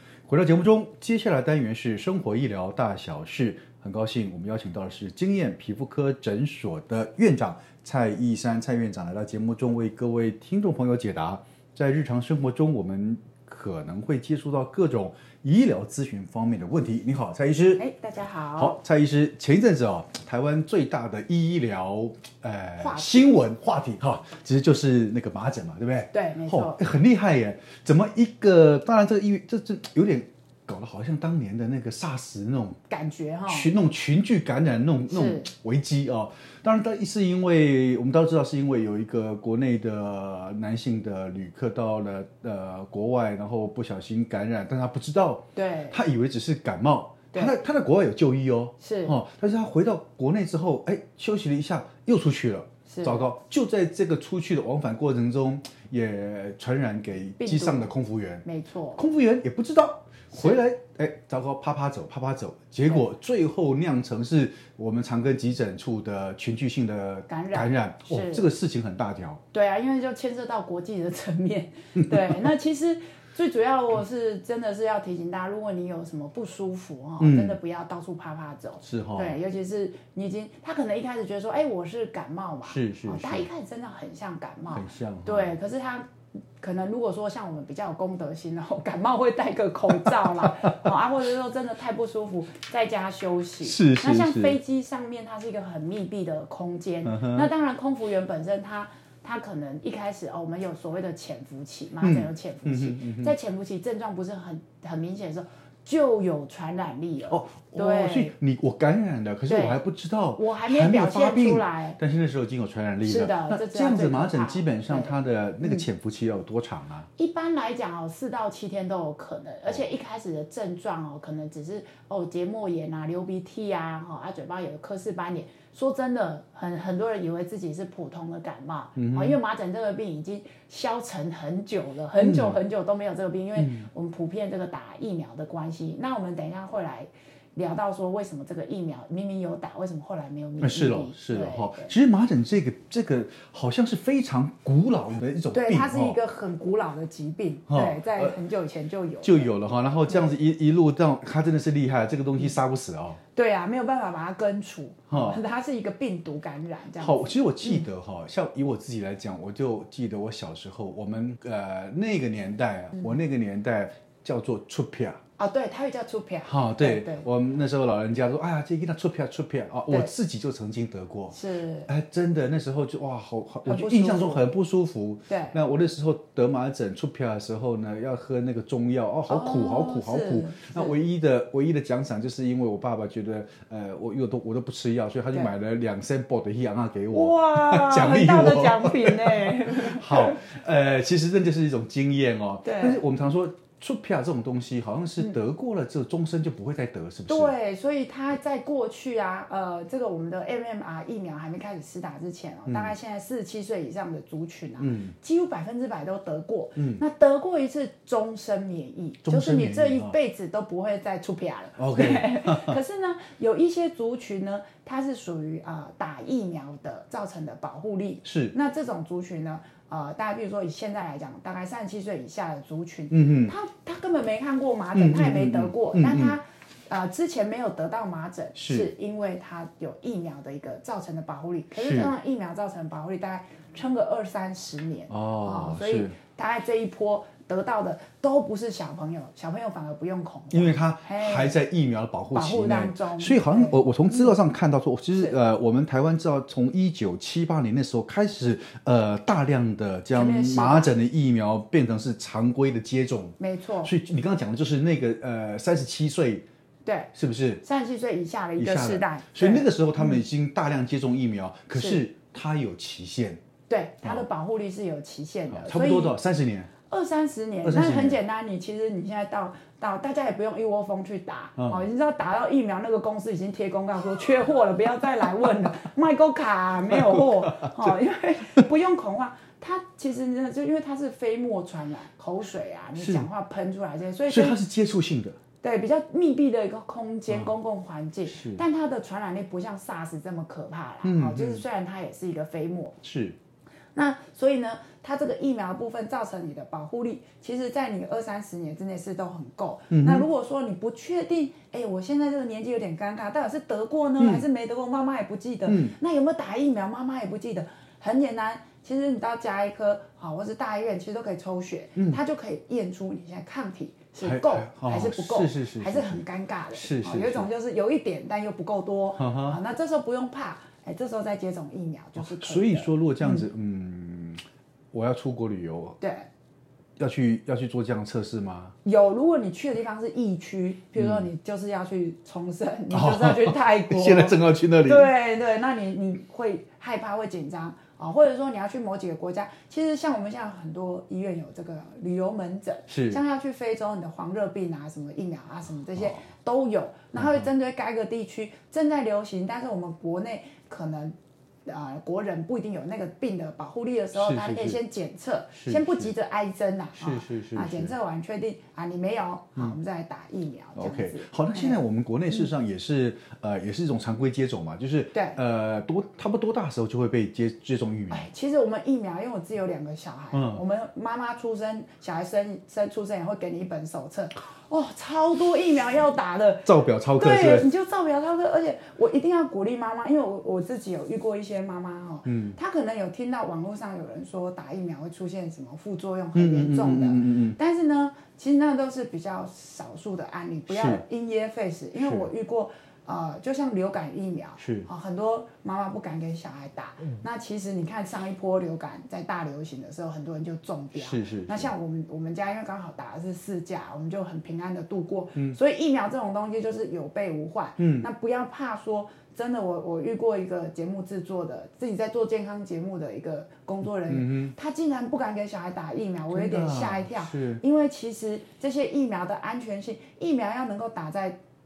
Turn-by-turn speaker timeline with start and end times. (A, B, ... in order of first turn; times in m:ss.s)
0:00.3-0:17.8 A
0:17.8-0:18.8 B
0:18.6-0:32.8 A
0:22.8-0:23.4 B
0:26.1-0:26.8 B
0:32.9-0:33.7 B
0:33.5-0:58.4 A
0:35.1-0:35.5 B
0:45.6-0:46.0 B
0:48.8-0:49.2 B
0:52.9-0:53.3 B
0:57.4-0:57.9 B
0:58.4-0:59.0 B
0:59.0-1:09.4 A
1:07.3-1:08.5 B
1:09.5-1:48.4 B
1:12.0-1:12.5 A
1:17.2-1:17.6 A
1:18.8-1:19.4 A
1:22.6-1:23.5 A
1:24.7-1:25.6 A
1:30.2-1:30.5 A
1:33.6-1:34.6 A
1:37.0-1:37.5 A
1:42.0-1:43.4 A
1:47.3-1:57.1 A
1:49.5-1:49.8 B
1:50.4-1:52.0 B
1:53.0-1:55.8 B
1:57.2-2:21.9 B
2:09.0-2:09.4 A
2:12.2-2:12.6 A
2:13.6-2:13.9 A
2:20.6-2:26.2 A
2:25.5-2:29.5 B
2:27.7-2:28.4 A
2:29.2-2:33.2 A
2:33.3-2:37.9 B
2:35.1-2:35.4 A
2:37.0-2:45.2 A
2:45.4-2:47.3 B
2:46.4-3:17.5 A
2:51.3-2:51.9 B
2:53.7-2:54.5 B
2:55.3-2:55.6 B
2:59.3-3:01.0 B
3:07.1-3:10.4 B
3:12.6-3:13.0 B
3:17.3-4:01.6 B
3:22.7-3:23.0 A
3:24.8-3:25.1 A
3:26.8-3:27.0 A
3:29.2-3:30.2 A
3:31.8-3:32.8 A
3:38.2-3:38.6 A
3:43.1-3:43.6 A
3:44.9-3:46.4 A
3:48.6-3:48.9 A
3:51.7-3:52.1 A
3:55.1-3:56.2 A
4:00.5-4:16.5 A
4:02.3-4:04.4 B
4:10.1-4:10.9 B
4:13.4-4:13.9 B
4:16.8-4:20.2 B
4:17.1-4:17.6 A
4:18.6-4:23.4 A
4:21.7-4:22.0 B
4:23.7-4:26.2 B
4:25.5-4:26.7 A
4:26.9-4:44.6 B
4:27.6-4:28.2 A
4:31.6-4:31.9 A
4:36.9-4:38.0 A
4:43.0-4:43.3 A
4:44.3-4:45.4 A
4:45.6-4:53.0 B
4:48.3-4:48.6 A
4:51.0-4:51.6 A
4:53.0-4:53.4 A
4:54.0-5:23.5 B
4:59.9-5:00.3 A
5:04.2-5:04.5 A
5:05.7-5:06.0 A
5:14.2-5:17.5 A
5:19.2-5:19.6 A
5:22.2-5:26.0 A
5:26.0-5:26.3 B
5:27.0-5:28.8 A
5:28.8-6:01.8 B
5:31.0-5:31.3 A
5:32.9-5:35.1 A
5:42.9-5:43.2 A
5:46.0-5:46.2 A
5:47.2-5:47.5 A
5:54.1-5:54.8 A
5:55.6-5:56.1 A
5:57.0-5:57.9 A
6:00.8-6:08.3 A
6:05.1-6:05.4 B
6:08.1-7:01.4 B
6:10.3-6:10.6 A
6:16.6-6:17.7 A
6:22.2-6:22.6 A
6:26.4-6:27.6 A
6:30.7-6:31.0 A
6:32.0-6:32.3 A
6:34.6-6:34.9 A
6:40.9-6:41.7 A
6:47.8-6:48.1 A
6:54.1-6:54.6 A
6:56.3-6:57.6 A